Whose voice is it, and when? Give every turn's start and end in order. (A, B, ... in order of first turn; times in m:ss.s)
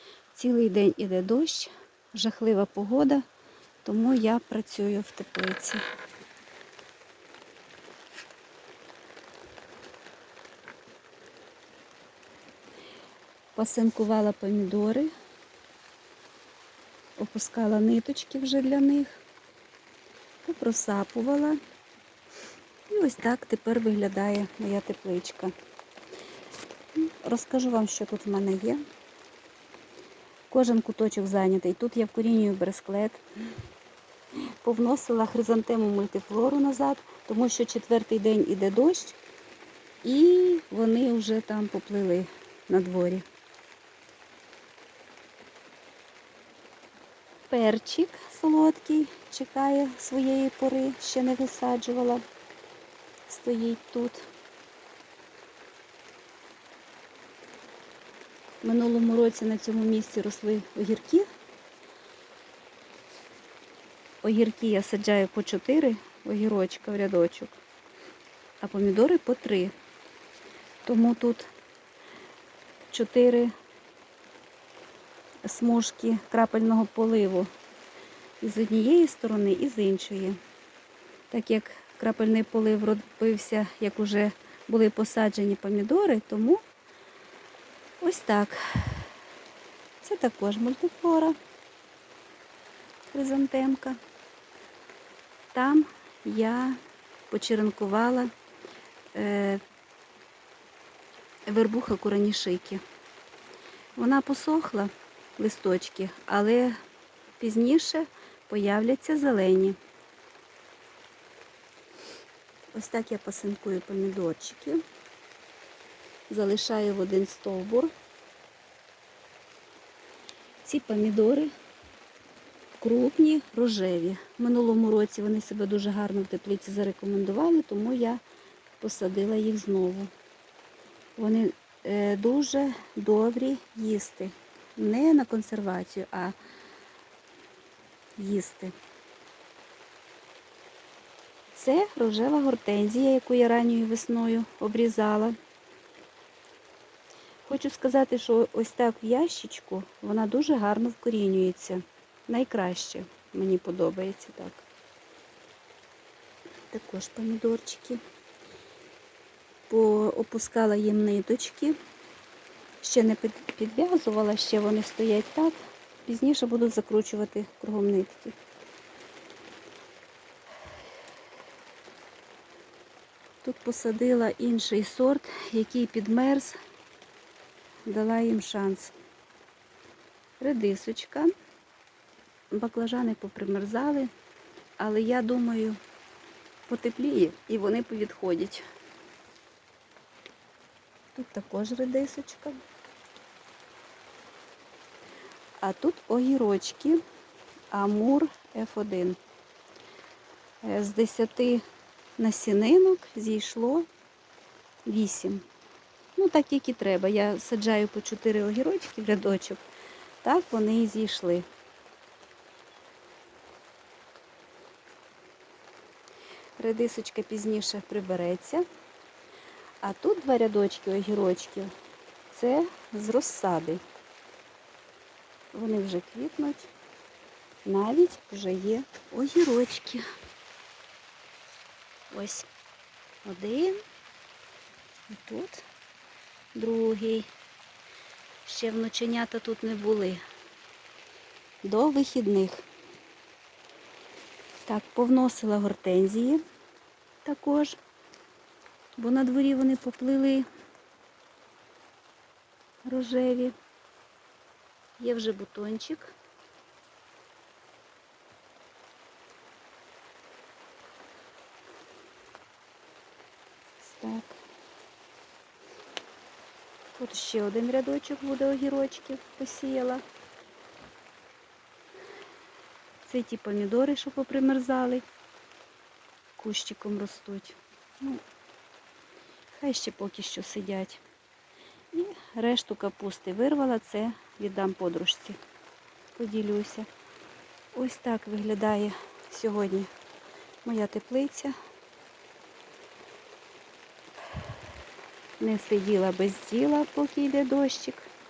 0:00.3-0:03.2 A
0:03.8-0:05.8 A
0:13.6-0:15.1 A
0:17.2-0:19.2 A
0:20.4-0:21.6 A
0:22.9-0:25.5 A
0:27.1-0:28.8 A
0:30.5-0:33.2 A
0:34.6-0:39.2 A
0:40.0-0:43.2 A
0:47.5-0:52.2 A
0:53.3-0:54.2 A
0:58.6-1:01.3 A
1:04.2-1:07.6 A
1:08.6-1:09.7 A
1:10.8-1:11.5 A
1:12.9-1:13.5 A
1:15.4-1:17.5 A
1:18.4-1:20.4 A
1:21.3-1:26.6 A
1:28.0-1:29.1 A
1:30.0-1:31.4 A
1:33.1-1:34.0 A
1:35.5-1:38.3 A
1:39.1-1:39.6 A
1:41.5-1:42.8 A
1:44.0-1:46.8 A
1:47.4-1:49.8 A
1:52.7-1:54.8 A
1:56.3-1:57.9 A
2:00.6-2:01.5 A
2:02.8-2:08.2 A
2:08.8-2:10.1 A
2:11.2-2:16.4 A
2:18.2-2:18.7 A
2:21.5-2:25.4 A
2:27.4-2:34.7 A
2:36.7-2:38.0 A
2:39.7-2:41.8 A
2:42.8-2:48.4 A
2:53.4-2:56.6 A
2:57.9-2:58.9 A
3:00.4-3:01.3 A
3:02.5-3:04.1 A
3:04.8-3:05.8 A
3:06.7-3:08.6 A
3:11.1-3:12.6 A
3:15.6-3:17.0 A
3:17.7-3:19.2 A
3:20.6-3:21.6 A
3:22.2-3:23.9 A
3:24.9-3:25.4 A
3:26.2-3:29.6 A
3:30.2-3:31.5 A
3:36.6-3:38.6 A
3:39.8-3:41.7 A
3:42.3-3:43.8 A
3:45.5-3:46.7 A
3:47.6-3:50.0 A
3:52.1-3:52.5 A
3:53.2-3:53.8 A
3:55.1-3:55.6 A
3:56.5-3:57.3 A
3:58.4-4:00.2 A
4:01.6-4:02.6 A
4:04.7-4:06.4 A
4:07.2-4:07.8 A
4:09.0-4:10.5 A
4:12.8-4:13.6 A
4:15.0-4:16.1 A
4:23.8-4:24.4 A
4:27.0-4:30.0 A
4:33.0-4:35.0 A
4:36.4-4:38.2 A
4:39.5-4:41.0 A
4:41.9-4:45.4 A
4:46.1-4:46.9 A
4:47.7-4:49.9 A
4:50.6-4:51.5 A
4:55.4-4:58.1 A